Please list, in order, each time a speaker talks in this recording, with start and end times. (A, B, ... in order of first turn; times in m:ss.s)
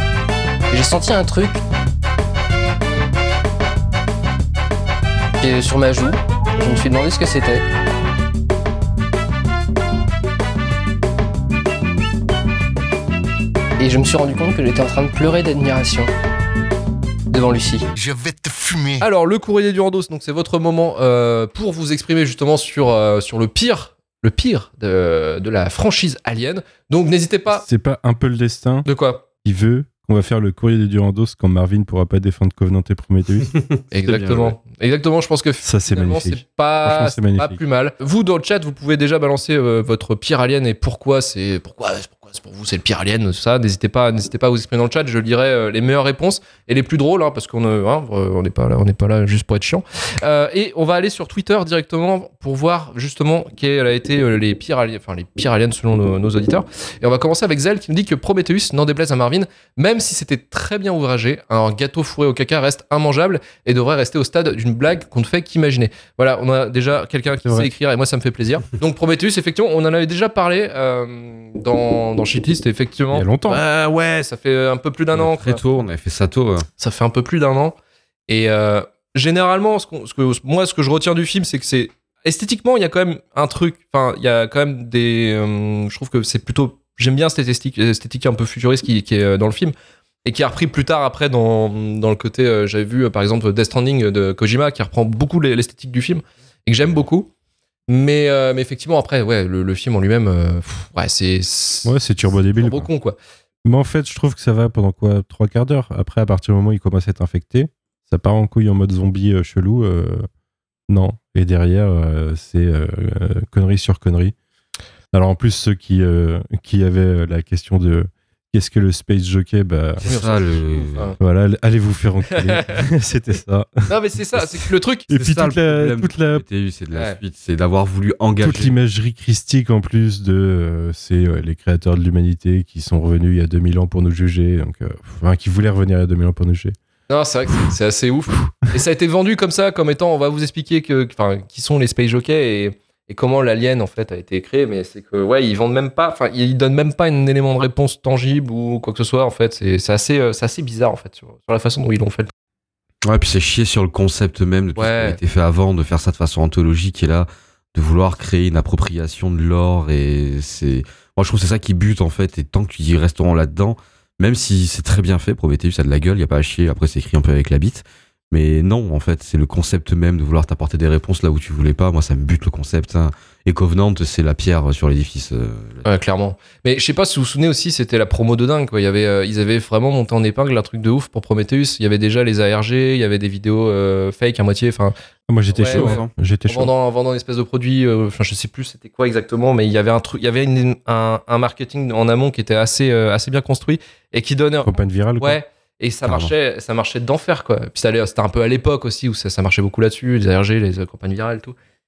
0:00.7-0:01.6 A
0:00.8-0:01.5 B
0:05.4-0:07.6 A
0:05.4-0:05.8 B
0:13.8-0:16.1 A
0:17.3-0:17.8 A
0:17.4-0:18.9 B
0:19.0-0:27.6 C
0:27.5-0:28.9 D
0:28.8-0:29.2 C
0:29.4-0:33.5 D
0:33.9-1:15.6 C
0:34.0-0:34.5 E
0:35.6-0:37.6 D
1:07.4-1:07.7 D
1:13.1-1:13.6 D
1:15.1-1:16.6 E
1:16.8-1:17.7 C
1:18.3-1:37.3 C
1:37.9-1:43.2 C
1:41.8-1:42.9 D
1:43.6-1:50.3 D
1:50.9-1:54.3 D
1:55.1-2:00.0 D
2:00.0-2:01.1 E
2:00.0-2:01.2 C
2:01.2-2:03.9 D
2:03.9-2:05.1 C
2:05.1-2:06.4 D
2:05.1-2:08.7 E
2:08.4-2:16.8 D
2:17.1-2:32.3 C
2:33.0-2:55.8 E
2:34.7-2:35.2 C
2:55.8-3:04.9 C
3:05.3-3:06.7 D
3:05.5-3:21.5 C
3:05.7-3:06.1 E
3:14.6-3:15.4 D
3:16.0-3:16.3 E